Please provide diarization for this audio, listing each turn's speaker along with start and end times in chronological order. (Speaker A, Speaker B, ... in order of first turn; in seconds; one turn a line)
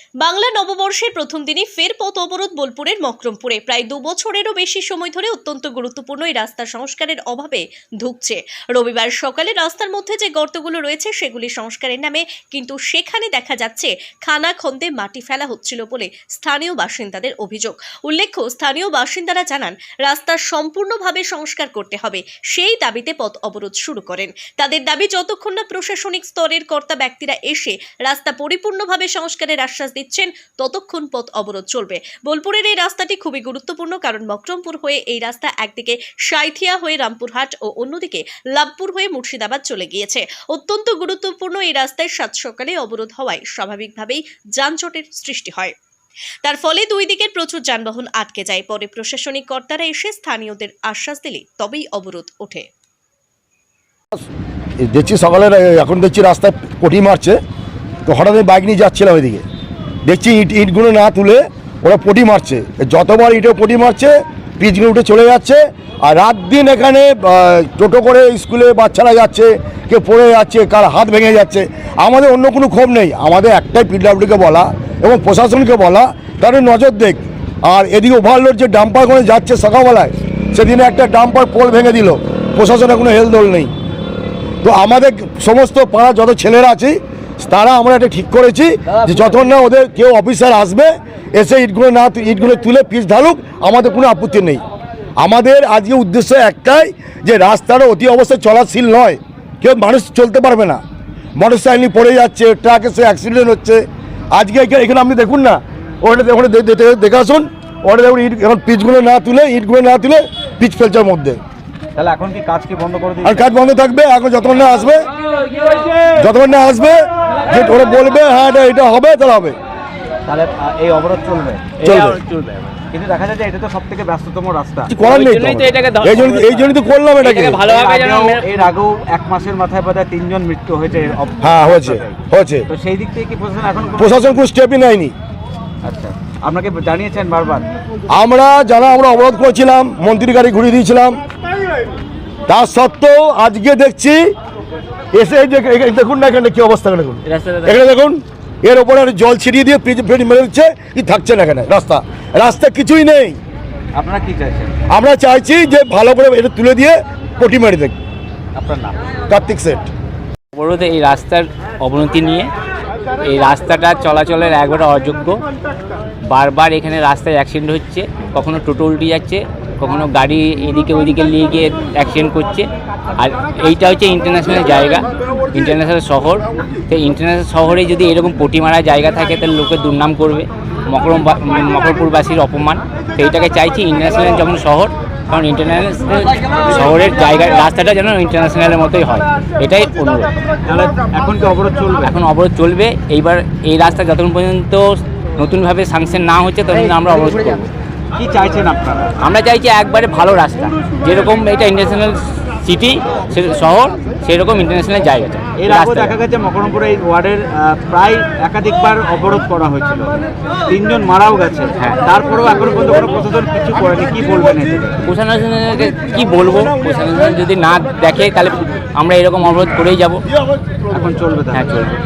Speaker A: 0.2-45.8
Speaker A: 46.4-52.7
Speaker B: 54.8-57.4
Speaker B: 58.1-59.4
Speaker B: 60.0-83.7
Speaker B: 84.6-94.6
Speaker B: 95.2-100.8
Speaker B: 101.4-111.4
Speaker C: 112.0-113.4
Speaker B: 113.2-115.1
Speaker B: 116.2-119.6
Speaker C: 120.3-121.7
Speaker D: 121.8-122.8
Speaker B: 121.8-122.2
Speaker C: 122.9-124.9
Speaker B: 124.9-127.6
Speaker D: 125.0-126.6
Speaker D: 127.2-128.5
Speaker C: 127.6-134.4
Speaker B: 131.4-132.7
Speaker B: 134.0-135.1
Speaker C: 135.8-137.7
Speaker B: 138.1-141.2
Speaker B: 142.5-144.2
Speaker B: 145.1-153.4
Speaker D: 147.3-147.8
Speaker C: 153.9-154.8
Speaker B: 154.9-158.0
Speaker C: 158.6-159.0
Speaker B: 159.3-159.9
Speaker D: 160.5-162.5
Speaker D: 163.2-165.4
Speaker D: 166.3-172.7
Speaker D: 173.2-190.3
Speaker C: 190.7-192.2
Speaker D: 192.0-194.8
Speaker D: 195.4-197.7
Speaker C: 198.2-199.2
Speaker D: 199.2-206.2
Speaker C: 205.6-215.0
Speaker D: 215.0-220.2
Speaker C: 220.9-221.7
Speaker D: 221.5-221.9